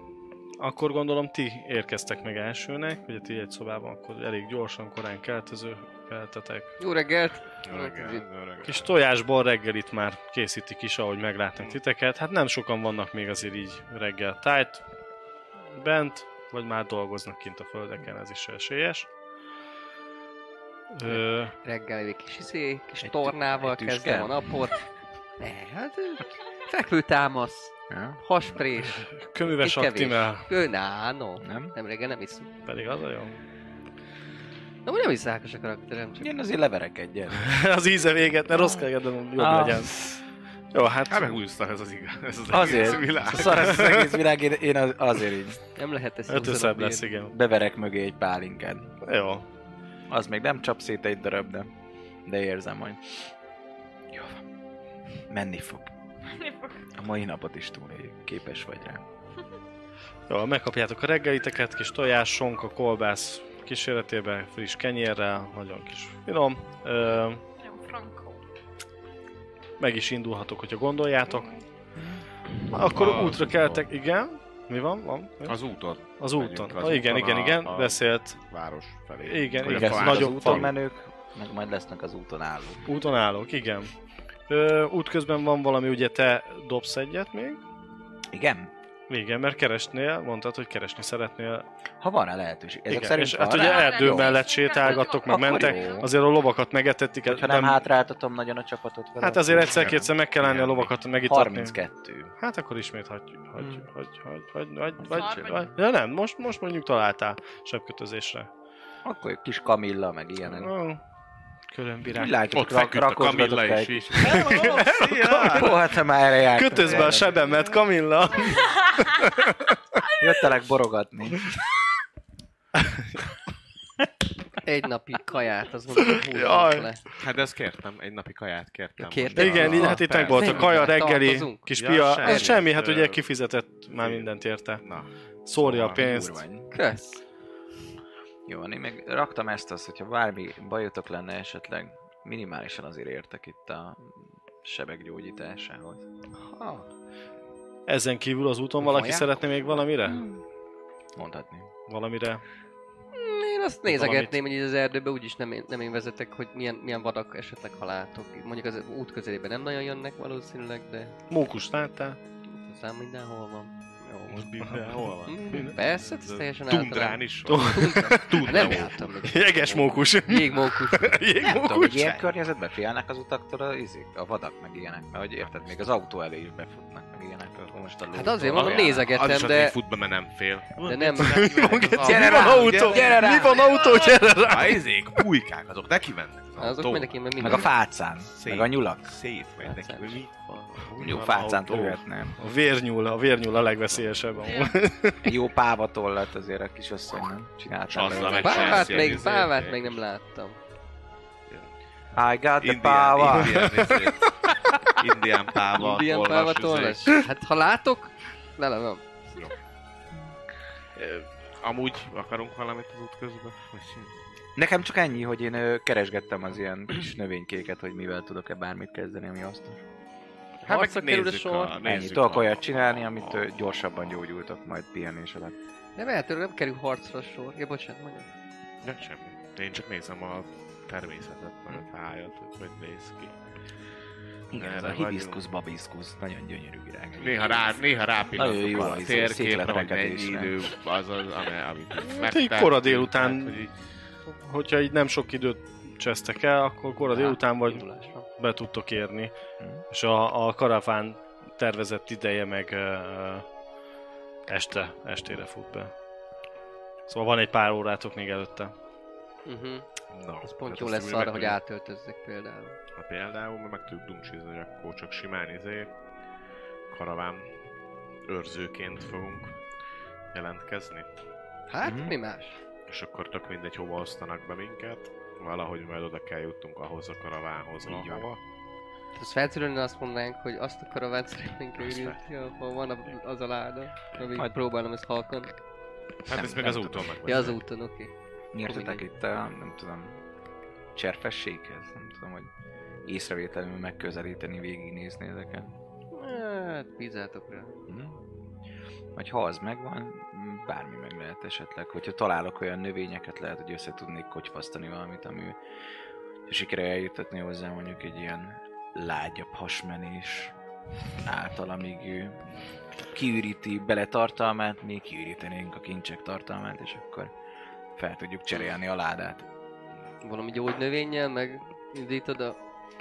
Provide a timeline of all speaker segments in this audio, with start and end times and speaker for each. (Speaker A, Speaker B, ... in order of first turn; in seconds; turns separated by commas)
Speaker A: 0.6-6.8, Speaker B: 6.8-8.2, Speaker C: 7.6-8.9, Speaker A: 8.6-14.8, Speaker A: 15.7-19.1, Speaker A: 20.9-21.5, Speaker B: 21.1-24.9, Speaker D: 23.0-24.7, Speaker B: 25.4-32.5, Speaker D: 27.9-28.6, Speaker A: 28.9-30.5, Speaker D: 31.4-31.7, Speaker A: 32.6-33.4, Speaker B: 34.9-36.3, Speaker D: 36.2-37.5, Speaker A: 37.3-40.2, Speaker D: 38.5-38.8, Speaker D: 39.4-40.2, Speaker A: 40.7-41.4, Speaker C: 41.1-43.9, Speaker D: 42.5-45.6, Speaker A: 43.4-44.1, Speaker B: 45.8-47.1, Speaker A: 46.3-47.3, Speaker D: 47.3-48.9, Speaker A: 49.0-49.5, Speaker D: 50.1-51.7, Speaker D: 52.2-53.2, Speaker D: 54.1-54.4, Speaker D: 55.3-55.9, Speaker E: 56.3-56.9, Speaker D: 57.0-59.0, Speaker A: 60.3-67.4, Speaker E: 67.6-68.4, Speaker A: 69.8-71.6, Speaker A: 72.7-75.6, Speaker C: 72.9-73.9, Speaker C: 75.5-80.7, Speaker A: 76.2-78.4, Speaker A: 79.2-80.7, Speaker D: 79.6-82.8, Speaker A: 82.8-83.9, Speaker A: 84.5-87.6, Speaker D: 88.3-88.7, Speaker A: 89.1-91.7, Speaker D: 92.0-94.4, Speaker A: 92.9-97.8, Speaker E: 93.5-96.1, Speaker D: 95.2-96.1, Speaker D: 97.2-100.1, Speaker A: 99.2-101.8, Speaker C: 99.8-100.9, Speaker D: 101.2-102.3, Speaker A: 102.4-108.5, Speaker E: 105.1-105.7, Speaker D: 105.1-105.7, Speaker D: 109.0-110.7, Speaker A: 110.4-111.0, Speaker A: 111.7-112.4, Speaker D: 112.0-117.5, Speaker C: 112.5-115.8, Speaker A: 114.2-115.7, Speaker A: 116.5-119.8, Speaker E: 118.6-119.1, Speaker D: 120.2-121.5, Speaker A: 122.8-123.3, Speaker B: 124.6-127.0, Speaker A: 126.0-126.9, Speaker C: 127.1-130.9, Speaker B: 129.0-132.6, Speaker A: 129.3-134.8, Speaker C: 131.7-133.2, Speaker C: 133.9-135.1, Speaker A: 135.4-136.4, Speaker D: 135.6-136.7, Speaker C: 135.6-135.9, Speaker B: 136.7-137.2, Speaker D: 138.5-146.0, Speaker B: 146.3-146.9, Speaker A: 147.9-150.2, Speaker B: 148.8-149.4, Speaker D: 150.1-150.4, Speaker D: 151.2-151.7, Speaker A: 151.9-152.4, Speaker B: 153.1-161.1, Speaker A: 153.8-154.4, Speaker A: 161.3-162.2, Speaker B: 162.5-164.5, Speaker C: 164.3-169.2, Speaker A: 164.6-165.7, Speaker B: 165.2-171.2, Speaker A: 167.5-172.2, Speaker D: 171.4-179.1, Speaker C: 171.9-172.2, Speaker C: 175.4-175.8, Speaker B: 178.1-179.7, Speaker C: 178.5-183.2, Speaker B: 180.8-181.9, Speaker A: 181.2-184.8, Speaker D: 182.0-183.7, Speaker C: 184.4-187.5, Speaker B: 186.6-187.7, Speaker D: 187.4-189.1, Speaker C: 188.3-191.9, Speaker B: 189.6-190.2, Speaker D: 191.0-192.3, Speaker A: 191.1-195.3, Speaker C: 193.9-194.4, Speaker E: 194.4-194.8, Speaker D: 195.2-199.2, Speaker C: 197.9-200.0, Speaker B: 198.2-200.6, Speaker D: 202.1-203.7, Speaker C: 202.6-204.3, Speaker A: 203.6-204.1, Speaker C: 204.8-207.2, Speaker B: 205.7-209.2, Speaker C: 210.9-214.2, Speaker D: 214.6-219.8, Speaker B: 220.6-221.8, Speaker C: 220.7-223.4, Speaker D: 221.8-225.5, Speaker B: 226.0-228.3, Speaker C: 228.8-233.3, Speaker C: 234.5-235.4, Speaker D: 234.5-237.6, Speaker C: 237.2-243.7, Speaker D: 238.3-240.5, Speaker A: 242.1-243.6, Speaker A: 244.3-249.3, Speaker B: 247.1-248.3, Speaker A: 249.9-253.5, Speaker A: 254.5-255.9, Speaker A: 257.1-258.7, Speaker B: 259.4-259.9, Speaker C: 260.1-261.6, Speaker B: 260.4-262.8, Speaker C: 262.9-265.9, Speaker C: 266.9-267.5, Speaker C: 268.3-269.6, Speaker C: 270.3-271.1, Speaker B: 271.7-272.6, Speaker D: 271.8-272.1, Speaker C: 272.9-278.4, Speaker D: 277.8-278.3, Speaker B: 279.1-285.5, Speaker C: 281.8-282.2, Speaker C: 286.2-287.6, Speaker D: 286.3-287.1, Speaker B: 287.2-288.1, Speaker D: 288.5-290.2, Speaker B: 288.6-289.0, Speaker D: 290.9-292.5, Speaker D: 293.0-295.7, Speaker B: 296.1-297.8, Speaker D: 297.9-298.2, Speaker D: 299.1-305.6, Speaker D: 306.4-310.5, Speaker D: 311.2-312.4, Speaker D: 313.1-317.3, Speaker D: 317.9-319.4, Speaker B: 320.2-322.6